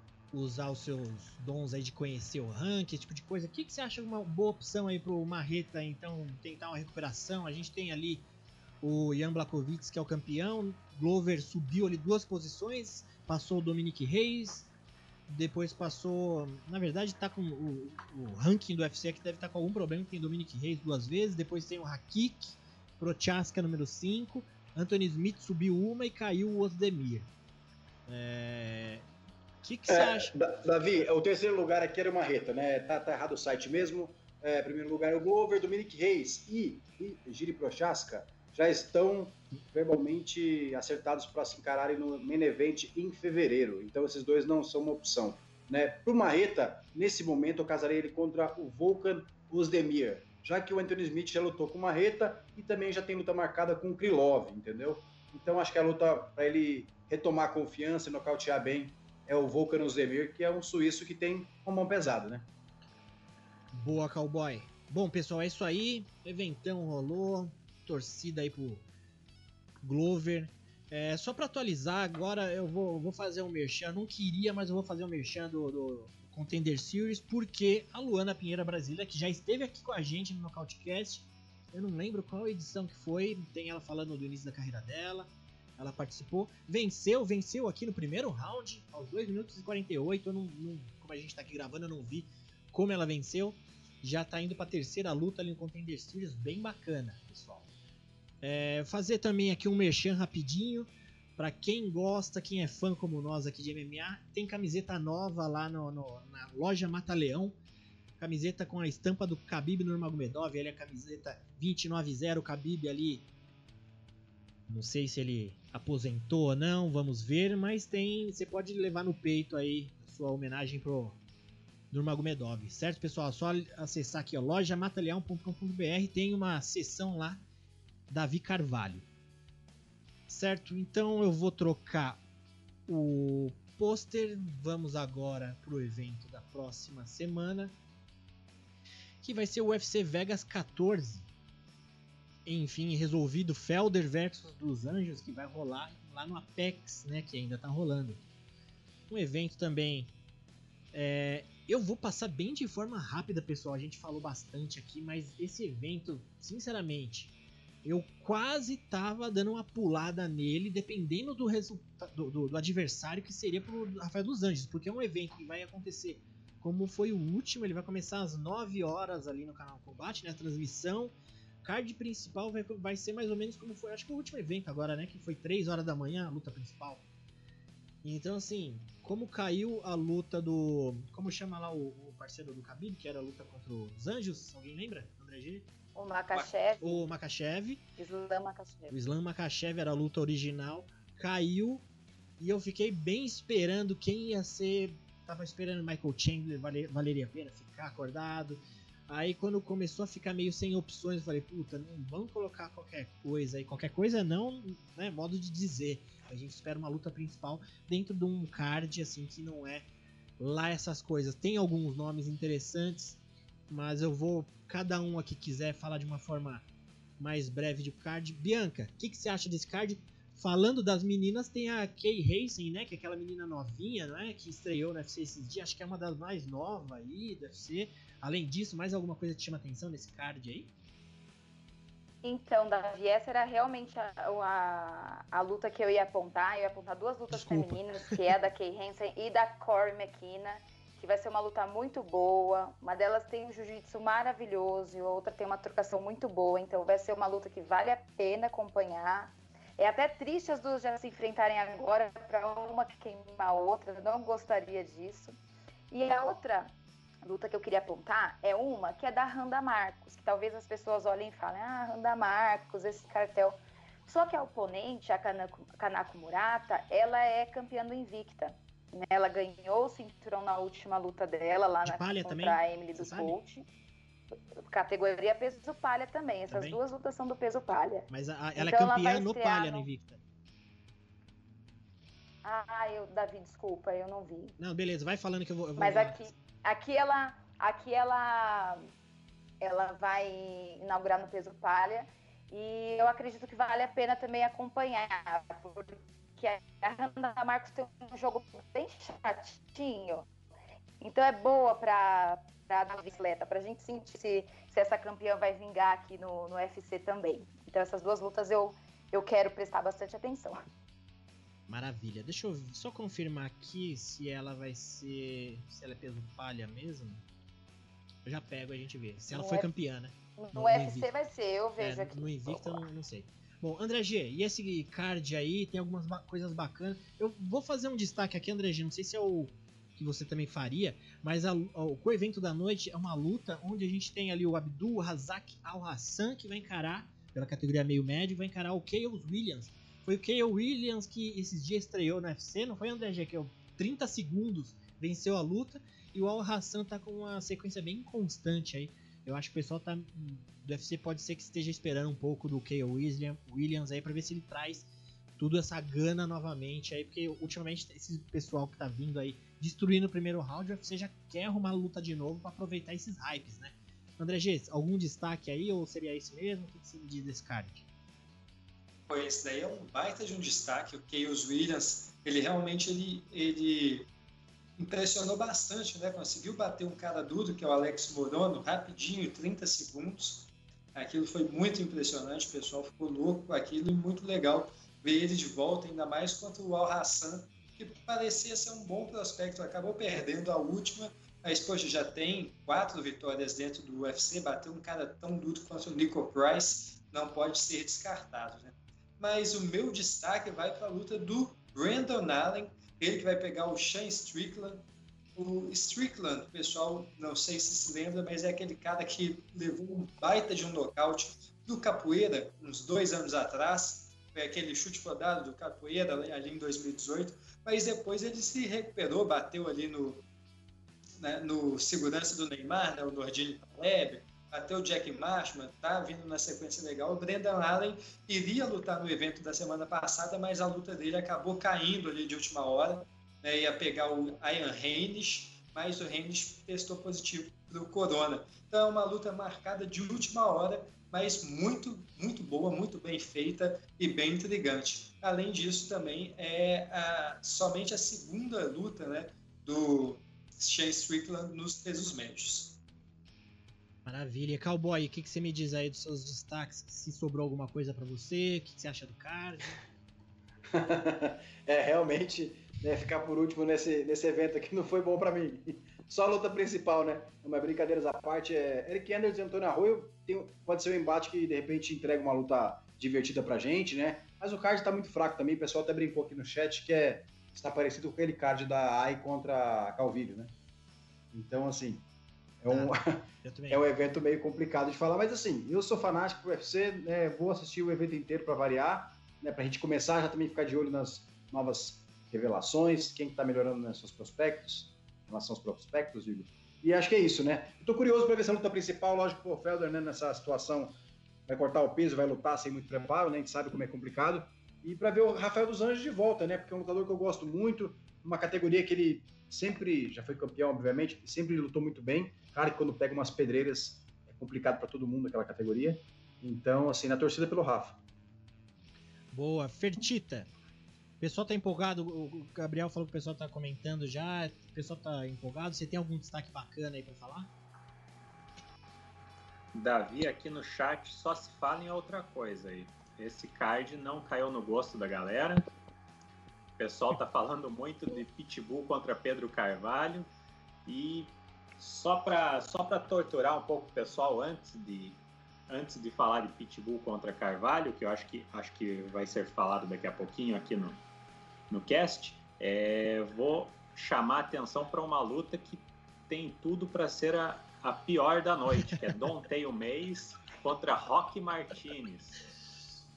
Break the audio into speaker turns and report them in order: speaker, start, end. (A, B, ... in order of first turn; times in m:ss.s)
0:00.3-0:08.3 A
0:08.8-0:14.7 A
0:15.3-0:27.3 A
0:28.1-0:29.0 A
0:29.6-0:30.3 A
0:29.9-1:02.5 B
1:03.7-1:08.8 A
1:09.8-1:37.7 A
1:38.4-1:47.6 A
1:48.2-1:53.3 A
1:54.7-2:01.2 A
2:01.9-2:07.4 A
2:08.1-2:09.0 A
2:10.3-2:12.2 A
2:12.9-2:17.8 A
2:19.2-2:21.3 A
2:22.4-2:28.2 A
2:29.1-2:30.1 A
2:30.9-2:57.0 A
2:58.0-3:05.7 A
3:05.9-3:07.0 C
3:06.8-3:07.8 A
3:08.0-3:08.9 C
3:08.9-3:11.8 A
3:12.4-3:29.9 A
3:30.4-3:36.6 A
3:37.2-3:50.7 A
3:52.2-4:15.3 C
3:57.3-3:58.4 A
4:15.9-4:16.7 C
4:17.2-4:33.6 C
4:31.8-4:33.4 A
4:34.7-4:39.8 C
4:36.5-4:36.8 A
4:38.1-4:40.2 A
4:42.4-4:44.6 C
4:44.6-4:46.2 A
4:45.8-4:48.8 C
4:49.6-5:00.3 C
5:01.0-5:10.6 C
5:11.7-5:17.2 A
5:18.2-5:21.1 A
5:19.3-5:19.7 C
5:20.4-5:22.8 C
5:21.8-6:07.8 A
6:09.1-6:14.1 D
6:14.8-7:00.2 D
7:01.2-7:32.8 D
7:34.0-7:39.8 A
7:40.7-8:00.5 B
8:01.3-8:02.0 B
8:02.6-8:38.0 B
8:02.7-8:03.8 A
8:39.3-8:40.5 A
8:41.2-8:47.5 A
8:49.7-8:55.7 E
8:56.8-9:00.3 E
9:00.8-9:11.0 E
9:11.7-9:22.4 E